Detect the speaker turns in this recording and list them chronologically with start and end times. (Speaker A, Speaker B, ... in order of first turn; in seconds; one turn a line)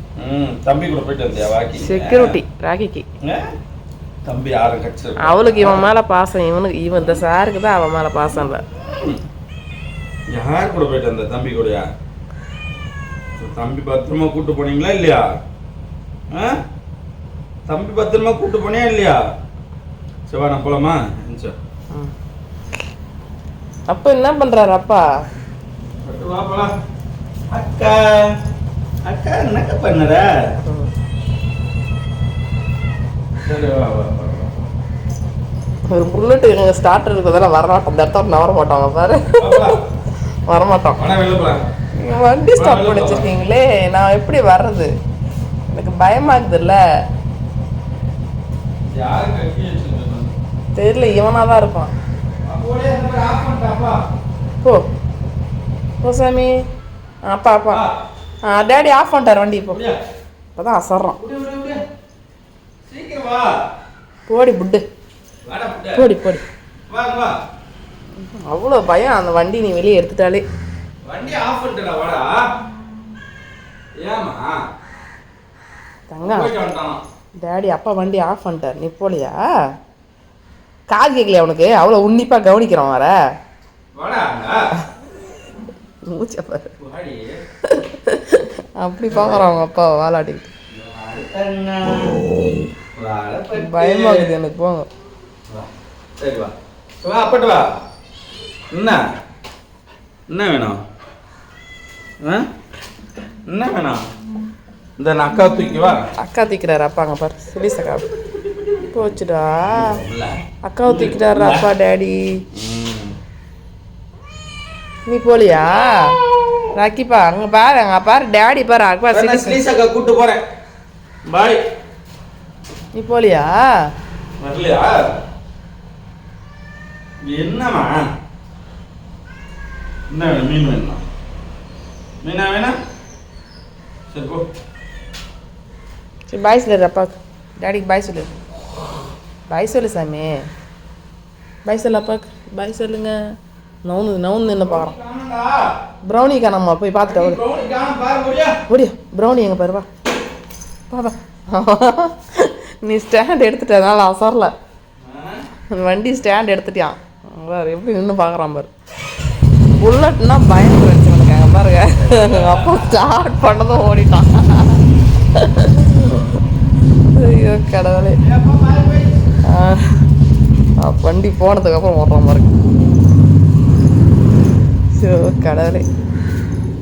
Speaker A: 0.2-2.4
Speaker B: 1.8-3.0
Speaker A: 3.2-3.5
Speaker A: 4.2-5.9
Speaker B: 5.2-8.6
Speaker A: 8.9-9.2
Speaker A: 10.3-11.9
Speaker A: 13.4-15.3
Speaker A: 16.3-16.6
Speaker A: 17.7-19.2
Speaker A: 20.3-21.6
Speaker B: 23.9-25.1
Speaker A: 26.0-26.7
Speaker A: 27.5-28.3
Speaker A: 29.1-30.3
Speaker B: 30.6-30.9
Speaker A: 33.4-34.6
Speaker B: 35.9-39.8
Speaker A: 39.4-39.8
Speaker B: 40.5-41.0
Speaker A: 41.0-41.6
Speaker B: 42.0-44.9
Speaker A: 42.5-43.2
Speaker B: 45.7-46.8
Speaker A: 48.9-50.3
Speaker B: 50.8-51.9
Speaker A: 52.5-54.0
Speaker B: 56.0-56.6
Speaker B: 57.3-57.8
Speaker A: 57.7-58.0
Speaker B: 58.5-59.8
Speaker A: 59.7-60.0
Speaker B: 60.6-61.2
Speaker A: 61.2-61.8
Speaker A: 62.9-63.5
Speaker B: 64.3-64.8
Speaker A: 65.5-66.1
Speaker B: 66.0-66.4
Speaker A: 66.9-67.3
Speaker B: 68.2-70.4
Speaker A: 71.0-72.4
Speaker A: 74.0-74.6
Speaker B: 76.1-76.5
Speaker A: 76.2-77.0
Speaker B: 77.4-79.4
Speaker B: 80.9-83.2
Speaker A: 83.9-84.6
Speaker B: 86.1-86.8
Speaker A: 86.8-87.3
Speaker B: 87.7-90.5
Speaker A: 89.1-89.5
Speaker A: 90.7-92.2
Speaker A: 93.0-94.3
Speaker B: 93.5-94.9
Speaker A: 96.2-97.7
Speaker A: 98.7-99.0
Speaker A: 100.3-100.8
Speaker A: 103.5-104.0
Speaker A: 105.0-106.1
Speaker B: 106.2-108.1
Speaker A: 108.6-109.1
Speaker B: 108.9-110.0
Speaker A: 109.6-111.7
Speaker B: 110.6-112.2
Speaker A: 112.5-113.2
Speaker B: 115.1-116.2
Speaker B: 116.8-119.6
Speaker A: 119.1-120.4
Speaker A: 121.3-121.6
Speaker B: 123.0-123.6
Speaker A: 124.4-124.9
Speaker A: 127.3-128.1
Speaker A: 130.1-131.0
Speaker A: 132.2-132.8
Speaker A: 134.1-134.5
Speaker B: 136.3-138.3
Speaker B: 139.5-140.4
Speaker B: 141.7-143.2
Speaker B: 143.8-144.9
Speaker A: 144.6-145.7
Speaker B: 146.1-147.4
Speaker A: 147.1-148.6
Speaker B: 148.7-149.9
Speaker B: 150.9-154.5
Speaker A: 155.0-155.4
Speaker B: 155.8-158.7
Speaker B: 159.8-164.8
Speaker A: 162.1-162.9
Speaker B: 165.4-166.2
Speaker B: 167.1-168.2
Speaker A: 168.2-169.2
Speaker B: 169.5-169.9
Speaker B: 170.8-172.6
Speaker B: 174.9-175.9